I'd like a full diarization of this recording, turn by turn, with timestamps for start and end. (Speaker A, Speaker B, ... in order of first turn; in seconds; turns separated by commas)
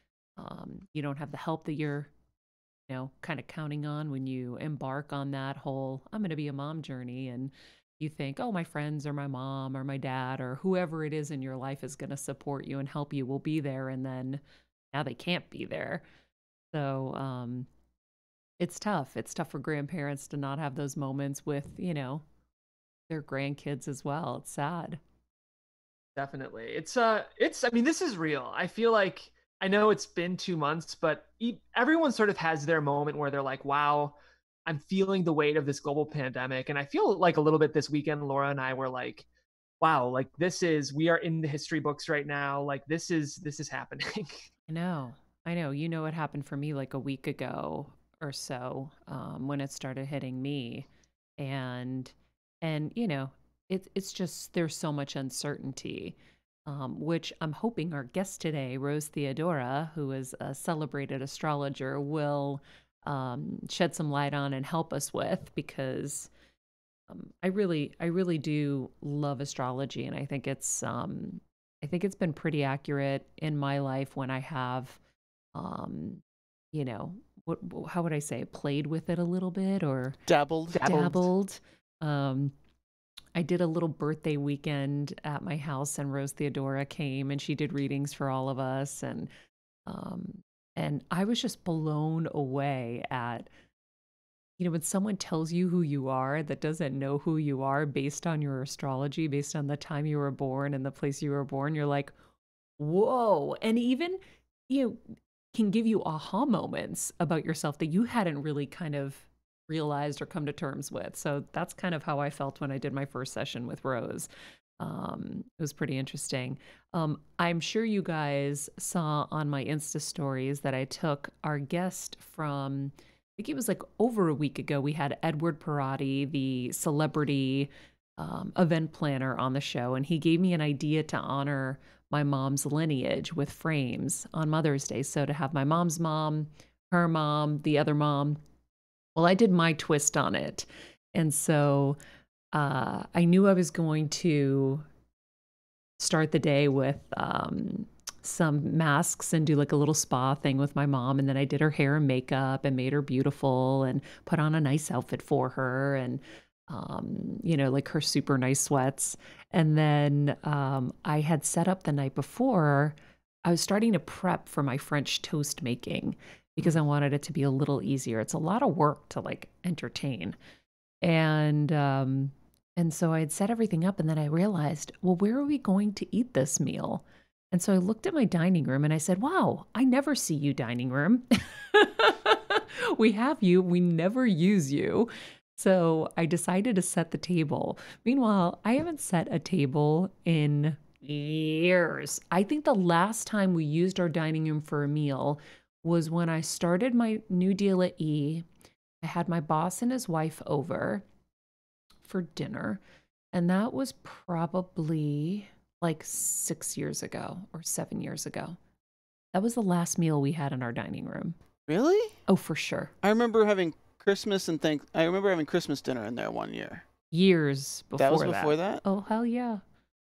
Speaker A: 0.4-2.1, Speaker A: 2.9-14.4, Speaker A: 14.9-16.0, Speaker A: 16.7-17.7, Speaker A: 18.6-22.2, Speaker A: 23.1-25.0, Speaker B: 26.1-39.2, Speaker B: 39.8-44.5, Speaker A: 44.7-50.9, Speaker A: 51.4-66.3, Speaker A: 67.1-75.0, Speaker A: 75.5-80.2, Speaker C: 80.3-81.2, Speaker B: 80.7-81.2, Speaker A: 80.8-82.5, Speaker A: 83.3-89.3, Speaker A: 89.8-93.5, Speaker A: 94.6-102.1, Speaker A: 102.8-138.4, Speaker A: 139.2-142.0, Speaker A: 142.5-144.8, Speaker A: 146.0-170.4, Speaker A: 171.0-198.4, Speaker A: 199.0-201.0, Speaker A: 202.0-202.8, Speaker A: 203.3-208.6, Speaker A: 209.3-211.3, Speaker C: 211.7-212.2, Speaker A: 212.3-212.9, Speaker C: 213.0-216.8, Speaker A: 217.1-219.6, Speaker C: 218.0-218.8